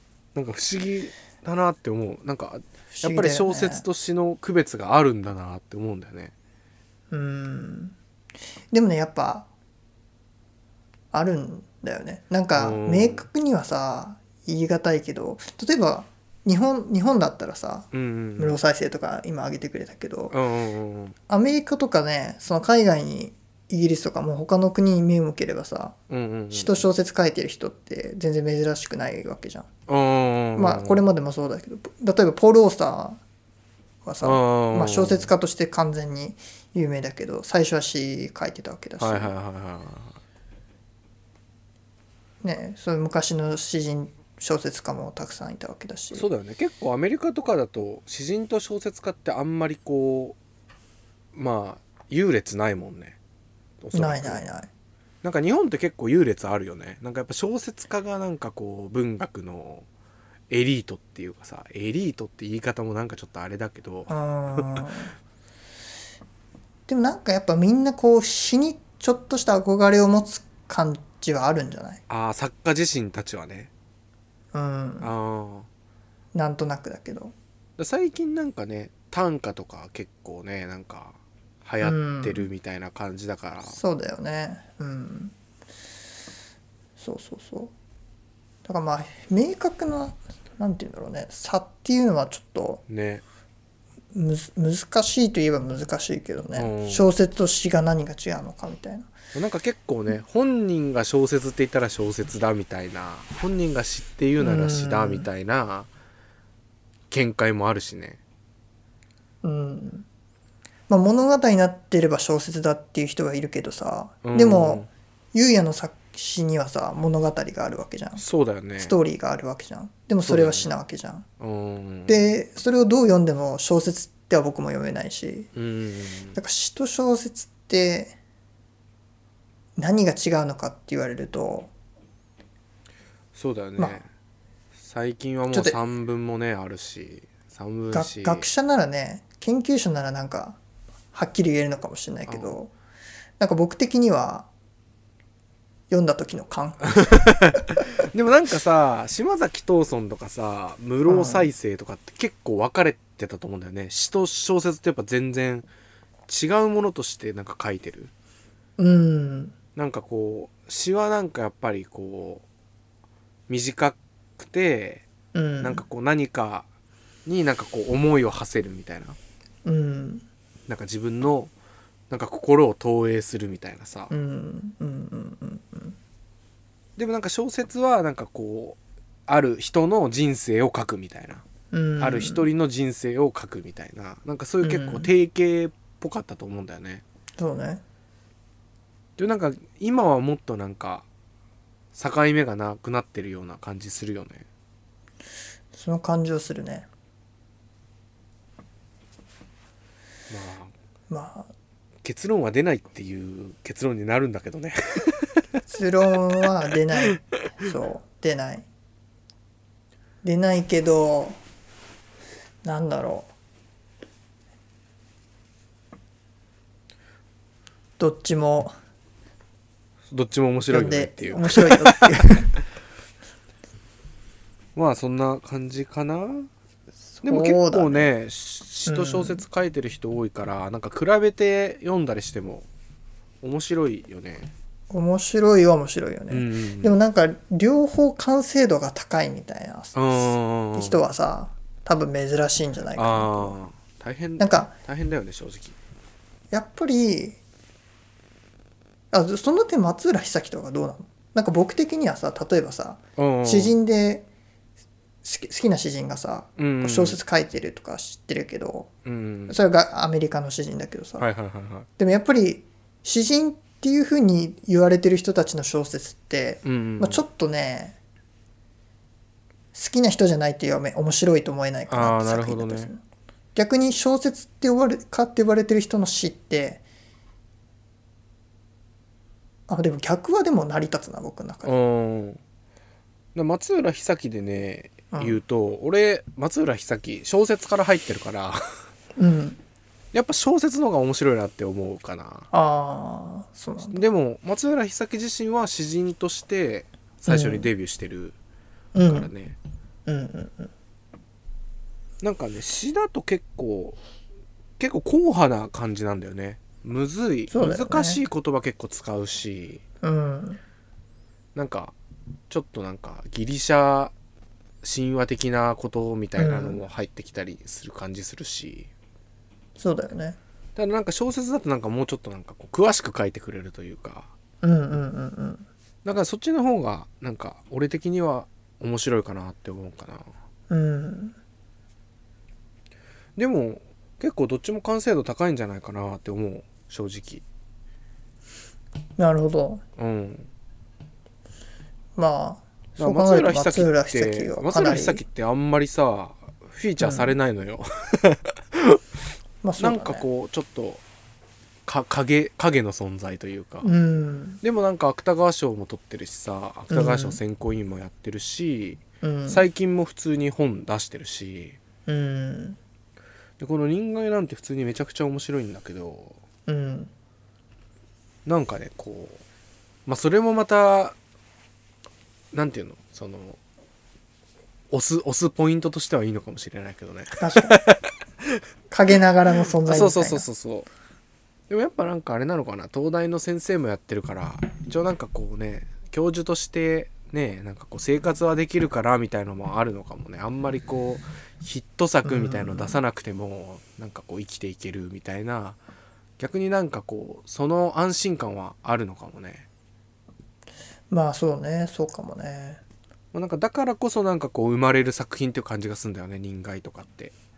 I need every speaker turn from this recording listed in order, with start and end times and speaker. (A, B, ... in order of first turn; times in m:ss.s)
0:00.3-0:06.3 A
0:02.9-0:03.8 B
0:07.1-0:07.9 B
0:08.7-0:09.5 B
0:11.1-0:20.3 B
0:12.5-0:13.2 A
0:17.9-0:18.6 A
0:20.3-0:21.2 A
0:21.3-0:26.0 B
0:26.1-0:26.9 A
0:26.5-0:29.7 B
0:29.9-0:31.0 A
0:30.6-0:33.2 B
0:34.0-0:39.3 B
0:34.2-0:35.3 A
0:39.0-0:40.2 A
0:42.4-0:46.2 B
0:46.1-0:50.4 A
0:51.3-0:53.2 A
0:53.8-0:54.4 A
0:53.9-0:54.7 B
0:55.2-0:59.8 A
1:00.5-1:04.8 A
1:04.1-1:05.1 B
1:06.9-1:12.0 B
1:12.1-1:13.7 A
1:14.5-1:15.1 B
1:15.0-1:15.7 A
1:16.3-1:17.3 B
1:17.8-1:23.8 A
1:21.8-1:22.5 B
1:23.7-1:25.3 B
1:27.0-1:27.7 B
1:28.6-1:32.8 B
1:32.9-1:33.2 A
1:34.1-1:39.1 B
1:36.6-1:37.1 A
1:39.3-1:45.9 A
1:44.4-1:45.3 B
1:47.1-1:48.2 A
1:49.4-1:50.0 B
1:50.9-1:58.2 B
1:54.2-1:54.9 A
1:58.2-1:58.9 A
1:58.8-2:01.2 B
2:00.2-2:00.7 A
2:01.4-2:02.2 A
2:02.1-2:05.5 B
2:05.5-2:06.4 A
2:06.3-2:08.1 B
2:09.8-2:11.7 B
2:13.3-2:14.1 A
2:14.8-2:18.5 A
2:15.5-2:15.8 B
2:17.9-2:20.6 B
2:21.1-2:22.7 B
2:22.3-2:22.6 A
2:23.4-2:24.5 B
2:25.9-2:27.7 B
2:27.0-2:35.7 A
2:31.0-2:31.5 B
2:36.3-2:38.1 A
2:38.8-2:39.5 B
2:39.8-2:42.4 A
2:43.5-2:45.0 A
2:45.3-2:45.8 B
2:45.6-2:46.6 A
2:47.2-2:49.2 A
2:49.6-2:50.2 B
2:50.7-2:51.5 A
2:52.1-2:54.1 A
2:54.1-2:56.0 B
2:57.0-3:01.4 A
3:01.7-3:02.4 B
3:02.0-3:07.0 A
3:04.6-3:05.1 B
3:07.4-3:07.8 B
3:09.2-3:11.0 A
3:11.9-3:14.4 A
3:15.7-3:16.9 B
3:20.3-3:20.7 A
3:21.1-3:21.5 B
3:22.0-3:25.4 A
3:25.7-3:28.6 B
3:30.2-3:31.4 B
3:32.6-3:33.3 B
3:38.0-3:38.7 B
3:40.1-3:42.3 A
3:40.7-3:42.5 B
3:44.8-3:46.5 A
3:47.1-3:48.1 B
3:47.2-3:52.7 A
3:48.8-3:49.4 B
3:53.4-3:54.5 A
3:54.9-4:03.6 B
3:56.3-3:56.9 A
3:59.9-4:01.0 A
4:03.0-4:05.8 A
4:04.4-4:04.7 B
4:06.5-4:07.4 B
4:09.1-4:14.2 B
4:13.2-4:13.8 A
4:15.2-4:18.9 B
4:16.6-4:17.2 A
4:19.0-4:19.6 A
4:19.5-4:21.3 B
4:21.2-4:21.9 A
4:22.0-4:28.0 B
4:26.6-4:27.2 A
4:29.7-4:33.0 B
4:31.9-4:32.9 A
4:33.5-4:36.8 B
4:39.7-4:41.7 B
4:41.6-4:42.4 A
4:43.3-4:48.6 A
4:45.1-4:45.4 B
4:49.2-4:49.6 B
4:50.1-4:52.5 A
4:52.5-4:54.0 B
4:53.9-4:58.4 A
4:57.2-4:57.7 B
4:58.9-4:59.3 B
4:59.0-4:59.6 A
5:00.0-5:00.7 B
5:02.2-5:04.0 A
5:04.8-5:09.8 A
5:07.5-5:08.2 B
5:10.0-5:10.6 B
5:11.5-5:11.9 A
5:12.5-5:14.1 A
5:14.8-5:18.9 A
5:16.4-5:16.8 B
5:19.8-5:20.4 B
5:20.8-5:24.3 A
5:24.6-5:25.7 B
5:26.0-5:30.3 A
5:30.7-5:31.4 B
5:33.4-5:37.4 A
5:39.2-5:39.8 B
5:40.0-5:40.5 A
5:42.2-5:45.2 B
5:43.0-5:49.0 A
5:47.0-5:47.3 B
5:49.6-5:50.2 B
5:49.8-5:51.0 A
5:51.8-5:53.9 A
5:53.8-5:54.6 B
5:54.6-6:01.8 A
5:56.9-5:57.4 B
5:59.2-5:59.6 B
6:02.1-6:02.8 B
6:03.6-6:06.4 A
6:06.7-6:07.1 B
6:08.4-6:09.4 A
6:10.0-6:11.2 A
6:12.5-6:13.6 A
6:14.9-6:18.6 A
6:17.4-6:17.8 B
6:18.9-6:20.5 B
6:19.8-6:20.9 A
6:21.7-6:35.8 A
6:32.2-6:33.0 B
6:36.4-6:39.6 A
6:41.1-6:42.8 B
6:43.3-6:47.3 A